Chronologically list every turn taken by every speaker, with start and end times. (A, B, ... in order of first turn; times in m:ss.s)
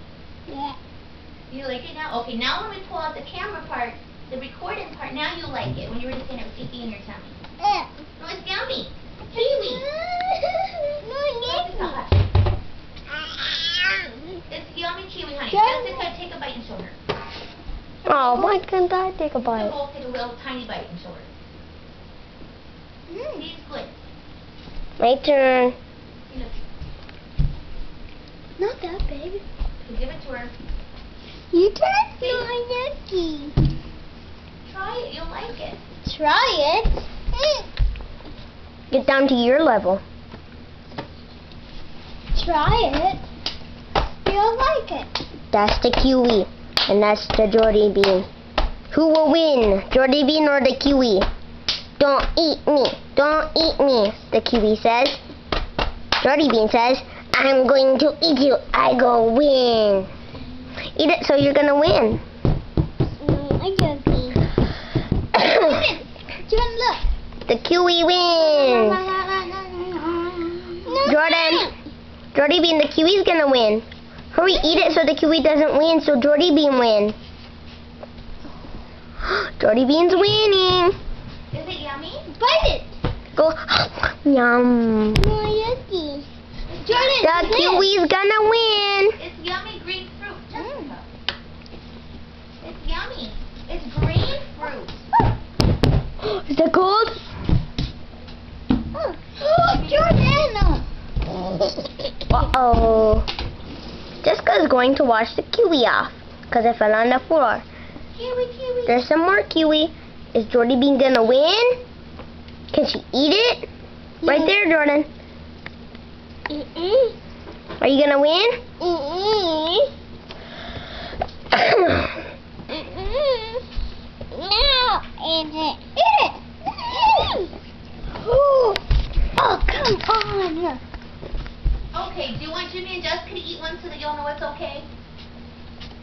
0:00.5-0:00.8 A
0:01.5-0:07.4 B
0:07.6-0:07.9 A
0:08.2-0:09.9 B
0:09.3-0:12.0 A
0:11.4-0:12.1 B
0:14.5-0:17.0 B
0:15.5-0:16.1 A
0:18.0-0:19.8 C
0:18.1-0:18.4 A
0:19.5-0:21.3 B
0:23.1-0:23.5 A
0:23.4-0:23.9 B
0:25.0-0:25.8 C
0:26.3-0:26.6 B
0:28.6-0:29.4 A
0:29.8-0:30.5 B
0:31.5-0:33.5 A
0:32.2-0:32.5 B
0:34.6-0:35.8 B
0:36.0-0:37.7 A
0:38.9-0:40.0 C
0:42.3-0:43.2 A
0:44.2-0:45.1 A
0:45.5-0:48.3 C
0:48.9-0:51.3 C
0:52.0-0:55.2 C
0:56.2-1:00.1 C
1:01.0-1:02.2 C
1:03.2-1:04.4 A
1:05.4-1:07.0 A
1:05.4-1:05.8 C
1:07.5-1:09.1 C
1:08.3-1:11.7 A
1:11.0-1:11.7 C
1:12.3-1:17.2 C
1:14.6-1:14.8 A
1:19.2-1:21.0 C
1:21.5-1:22.4 B
1:22.4-1:23.0 A
1:23.4-1:25.2 C
1:25.2-1:26.3 A
1:26.7-1:27.6 B
1:26.8-1:27.9 A
1:27.2-1:29.2 C
1:29.2-1:31.1 B
1:30.6-1:30.9 A
1:32.6-1:35.0 B
1:36.2-1:37.3 C
1:38.9-1:40.8 A
1:39.7-1:40.0 B
1:42.3-1:43.3 C
1:44.2-1:47.6 C
1:48.2-1:49.0 A
1:48.9-1:51.8 C
1:52.7-1:53.7 C
1:54.2-1:54.5 A
1:54.2-1:55.1 C
1:56.5-1:57.1 A
1:57.8-1:58.6 C
1:58.8-1:59.9 A
2:01.5-2:02.0 C
2:02.7-2:03.6 A
2:04.3-2:07.5 A
2:08.2-2:08.8 A
2:09.4-2:10.8 A
2:11.9-2:14.9 B